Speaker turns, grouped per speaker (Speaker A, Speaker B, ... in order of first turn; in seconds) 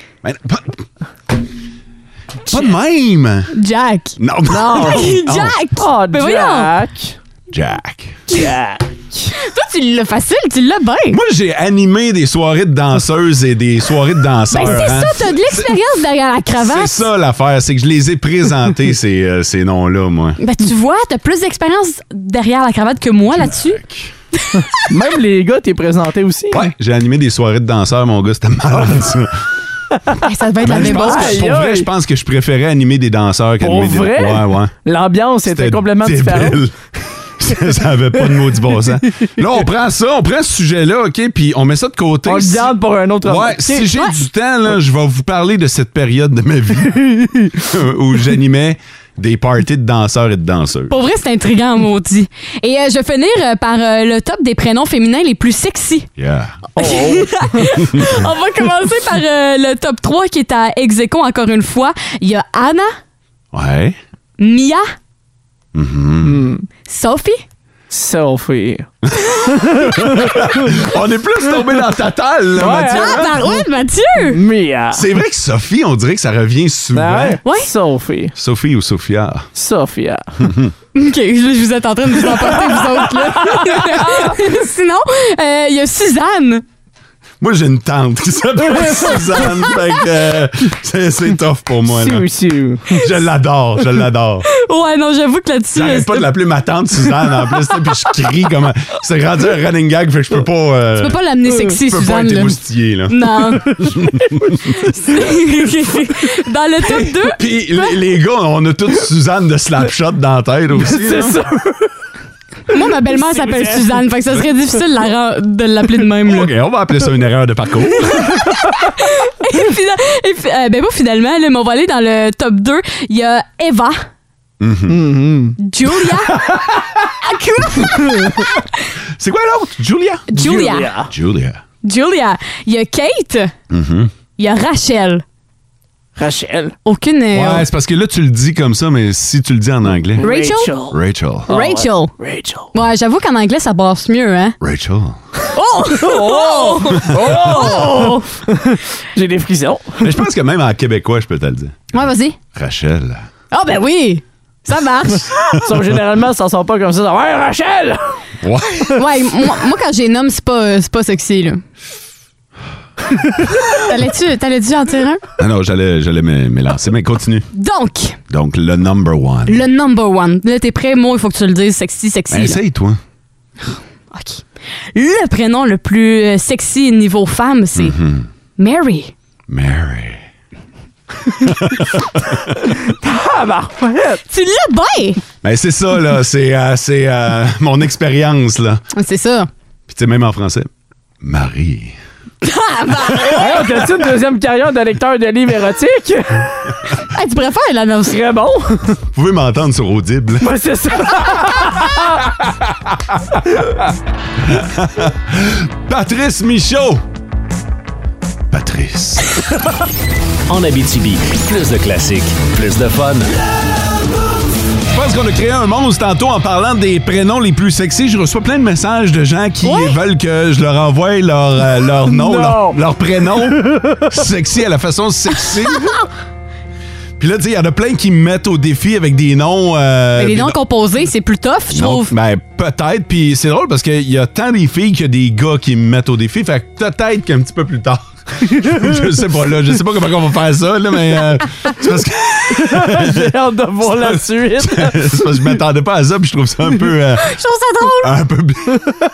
Speaker A: 0.2-0.8, 2.5-3.5, 4.2-5.6, 7.5-8.2, 11.1-15.7, 16.6-20.4, 23.3-24.1, 26.5-29.4, 30.6-34.7, 35.4-36.7, 37.4-42.7, 43.2-50.9, 56.2-56.6, 63.5-64.0, 65.7-66.4, 69.1-73.3, 74.9-77.4, 78.3-79.5, 80.4-80.7, 87.4-92.2, 92.9-94.5, 95.7-101.2, 101.8-104.6, 106.9-111.4, 116.2-118.3, 124.6-125.0, 129.2-130.3, 131.1-131.6, 133.7-134.1, 137.3-140.2, 140.9-141.5, 144.6-145.2, 147.1-147.7, 150.0-151.9, 152.5-153.3, 158.4-159.0, 165.4-167.4, 168.3-169.6, 172.3-173.0, 177.7-178.3, 179.5-180.2, 181.3-182.4, 185.4-188.8, 189.9-190.7, 191.2-191.9, 199.1-200.5, 204.4-207.0, 208.5-209.3, 214.9-226.0, 227.2-230.6, 231.7-247.3, 248.0-248.9
Speaker B: 3.5-6.7, 9.3-11.2, 14.5-17.1, 20.4-23.8, 30.2-31.4, 50.9-56.1, 56.8-63.0, 64.4-64.9, 66.9-67.4, 72.9-74.4, 77.4-77.7, 80.9-86.6, 94.5-96.3, 101.0-103.8, 104.9-107.9, 112.7-116.5, 118.2-124.1, 125.6-126.4, 127.2-128.6, 130.3-130.9, 131.8-133.5, 134.4-135.2, 136.8-137.7, 140.2-140.7, 141.5-142.1, 142.7-144.6, 145.5-148.3, 151.9-152.4, 153.5-155.3, 158.9-161.6, 163.7-165.2, 167.5-168.2, 169.5-172.6, 174.1-178.0, 178.6-179.1, 184.3-185.2, 188.9-189.5, 192.4-193.6, 197.1-198.2, 219.6-220.0, 230.2-232.1, 247.2-248.1
Speaker C: 4.7-5.0, 5.8-7.2, 8.3-9.3, 24.8-26.6, 30.7-31.9, 33.6-36.6, 42.2-43.9, 56.8-57.5, 66.2-66.6, 67.9-68.9, 69.5-70.5, 72.5-73.3, 74.3-75.0, 76.9-78.3, 79.5-80.2, 83.5-84.3, 91.9-93.1, 110.8-111.9, 113.0-114.0, 124.9-125.5, 130.3-131.1, 136.2-136.7, 140.2-142.7, 146.0-150.1, 155.5-158.1, 182.8-184.2, 193.3-196.5, 198.1-198.9, 200.4-202.2, 222.1-222.8, 242.6-245.2
Speaker D: 210.5-213.3